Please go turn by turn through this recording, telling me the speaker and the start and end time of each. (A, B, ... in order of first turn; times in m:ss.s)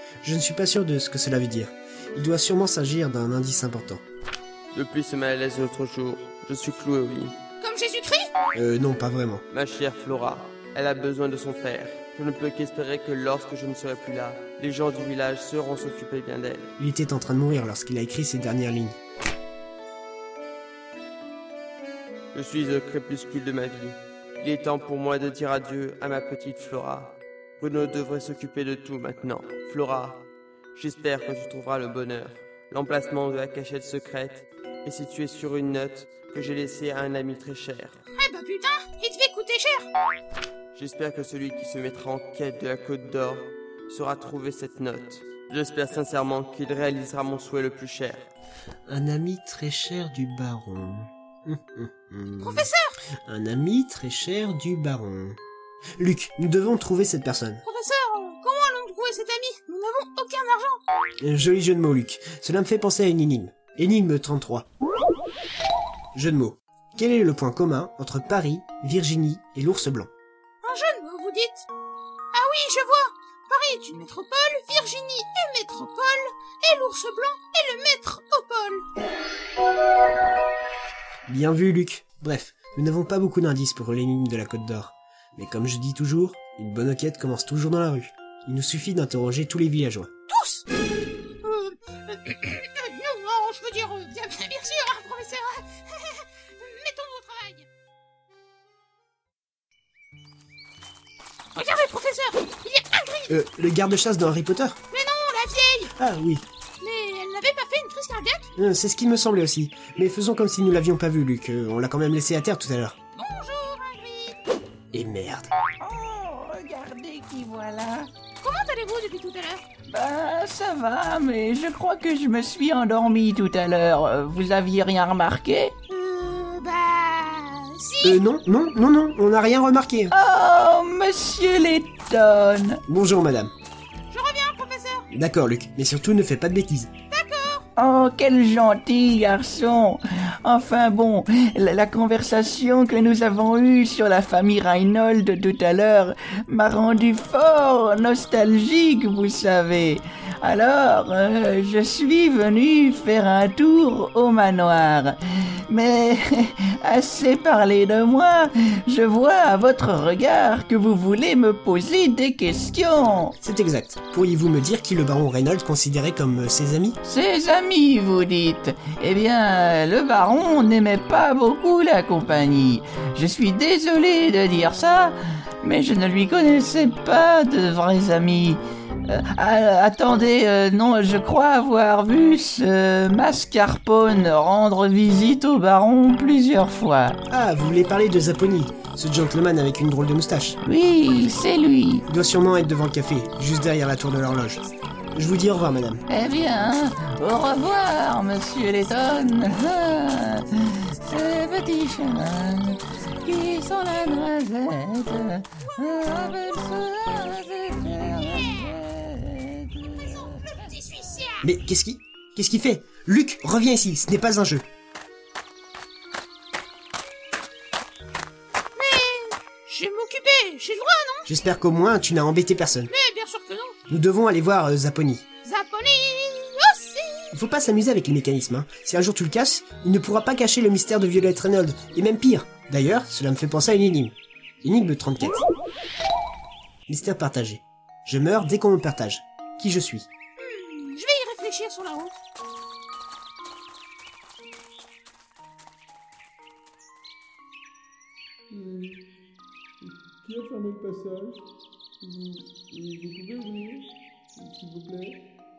0:00.2-0:04.0 A
0:04.7-0:07.4 B
0:07.6-0:08.3 C
0:08.6-0:09.4 A
0:09.5-0:16.7 B
0:16.8-0:19.0 A
0:22.3-0:38.0 B
0:38.1-0:39.9 C
0:40.7-0:48.3 B
0:48.9-0:52.7 A
0:52.4-0:52.9 C
0:53.2-0:55.4 A
0:56.0-0:57.6 A
0:57.6-1:00.8 C
1:01.2-1:04.7 A
1:06.1-1:10.1 A
1:10.6-1:11.7 C
1:12.3-1:18.8 C
1:21.3-1:30.1 A
1:30.3-1:30.6 C
1:31.4-1:37.7 C
1:41.6-1:43.3 C
1:43.3-1:44.8 A
1:44.9-1:45.9 C
1:45.9-1:46.4 A
1:46.8-1:48.5 C
1:48.6-1:53.0 A
1:53.1-1:54.4 C
1:54.9-1:55.5 A
1:55.8-1:58.1 D
1:58.4-1:59.6 C
1:59.9-2:05.7 D
2:05.9-2:08.2 C
2:08.0-2:10.1 A
2:10.1-2:12.8 D
2:12.9-2:13.5 A
2:14.1-2:15.1 C
2:15.1-2:16.9 A
2:17.1-2:17.6 C
2:17.8-2:35.1 D
2:35.7-2:43.3 D
2:43.4-2:47.0 A
2:47.0-3:07.2 D
3:07.3-3:10.6 A
3:10.6-3:12.0 D
3:12.1-3:16.0 A
3:16.1-3:30.4 D
3:22.4-3:24.3 C
3:25.6-3:26.5 C
3:28.0-3:28.8 C
3:30.1-3:31.4 C
3:31.4-3:34.6 A
3:38.8-3:41.2 C
3:41.2-3:42.9 A
3:42.9-3:43.8 C
3:43.9-3:45.2 A
3:45.4-3:47.3 C
3:47.3-3:55.5 A
3:56.9-4:00.1 A
4:00.4-4:02.2 C
4:08.5-4:09.0 E
4:09.8-4:11.5 E
4:12.0-4:15.2 E